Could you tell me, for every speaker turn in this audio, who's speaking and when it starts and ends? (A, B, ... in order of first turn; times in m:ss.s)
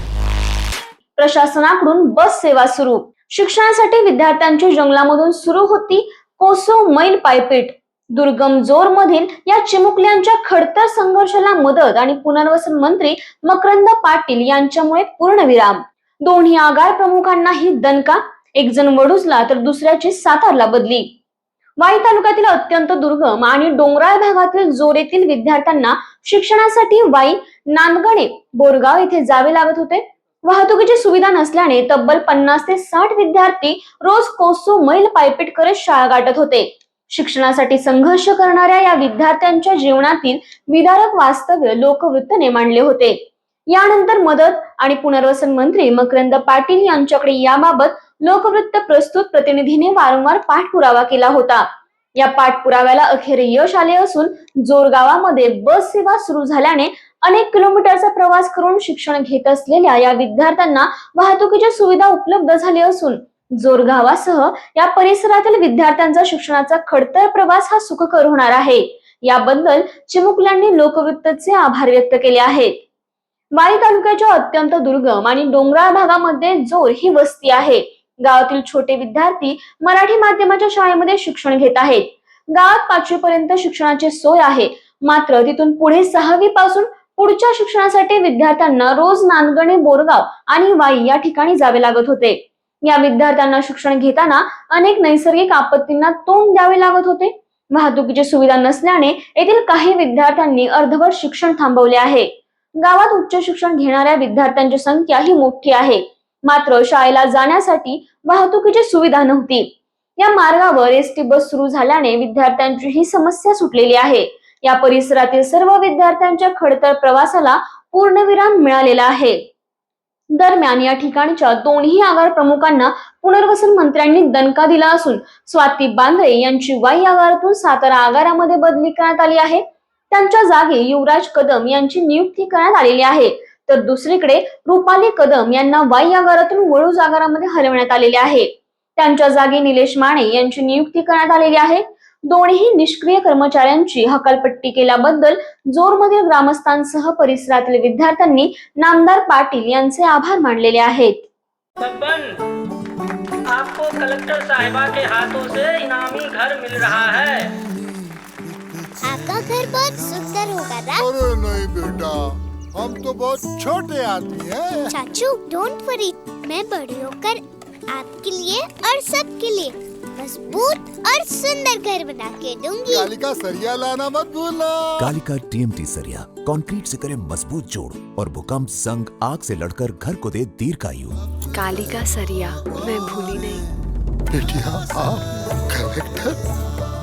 0:01.2-0:21.1 A
0:21.8-0:43.2 A
0:43.7-0:51.7 A
0:52.2-1:12.8 A
1:13.5-1:59.4 A
2:00.3-2:31.3 A
2:31.8-2:32.4 B
2:33.5-2:37.6 B
2:39.0-2:41.1 C
2:41.0-2:44.9 D
2:44.9-2:53.0 C
2:52.9-2:55.1 D
2:55.0-3:01.2 E
3:01.5-3:03.7 F
3:04.3-3:06.4 D